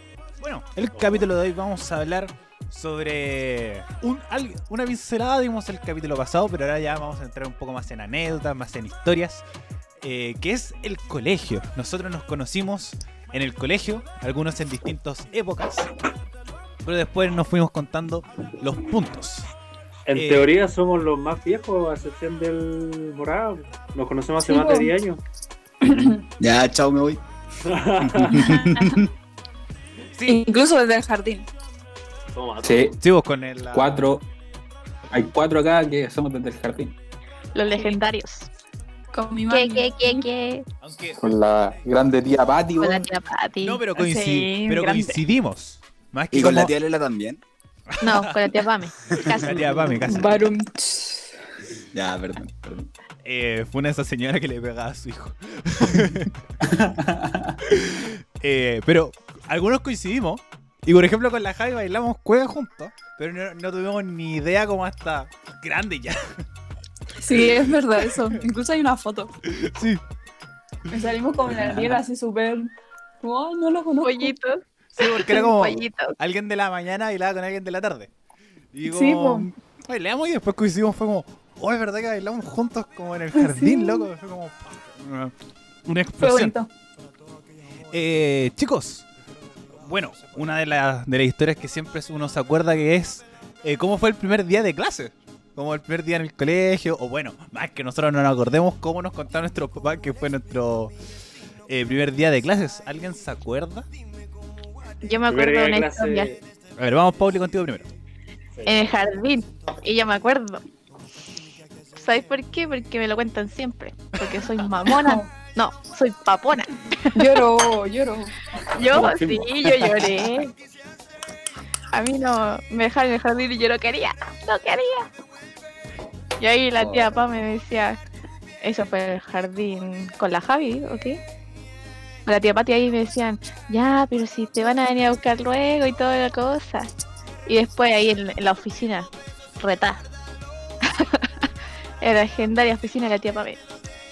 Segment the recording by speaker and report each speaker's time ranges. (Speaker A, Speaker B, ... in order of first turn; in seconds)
Speaker A: 0.4-9.4, 10.0-15.9, 16.8-19.5, 20.1-20.5, 30.2-30.4, 33.0-34.0, 40.8-41.2, 43.6-46.8, 47.9-48.6, 49.2-50.3, 53.2-56.4, 57.6-66.2, 67.3-68.4, 69.5-70.0, 75.0-78.1, 78.7-85.3, 85.9-86.5, 87.9-89.1, 89.7-100.9, 101.7-103.9, 106.8-107.9
Speaker B: 0.9-1.3, 20.1-25.2, 27.6-28.4, 32.3-33.0, 105.3-106.4, 108.5-108.8
Speaker C: 24.4-24.9, 25.8-26.2, 28.3-28.9, 30.3-31.5, 39.1-40.3, 44.0-45.2, 50.0-51.3, 67.2-69.3, 70.9-74.4, 78.9-79.5, 83.3-84.1, 86.2-86.7, 114.9-115.4, 117.1-118.3
Speaker D: 25.8-27.2, 28.0-29.1, 46.3-47.4, 49.1-49.4, 51.9-52.9
Speaker E: 32.6-33.0, 33.7-34.3, 35.1-37.0, 41.2-43.1, 56.6-57.6, 71.5-72.0, 118.8-120.4
Speaker F: 37.5-38.5, 39.5-40.7, 42.8-43.8, 48.0-50.0, 74.0-76.2, 105.0-106.3, 108.7-110.6, 112.0-117.4, 118.6-120.5, 121.9-125.1, 126.4-128.0, 128.6-131.2, 132.3-136.9, 137.5-139.1, 139.6-140.0, 140.8-141.5, 142.0-143.6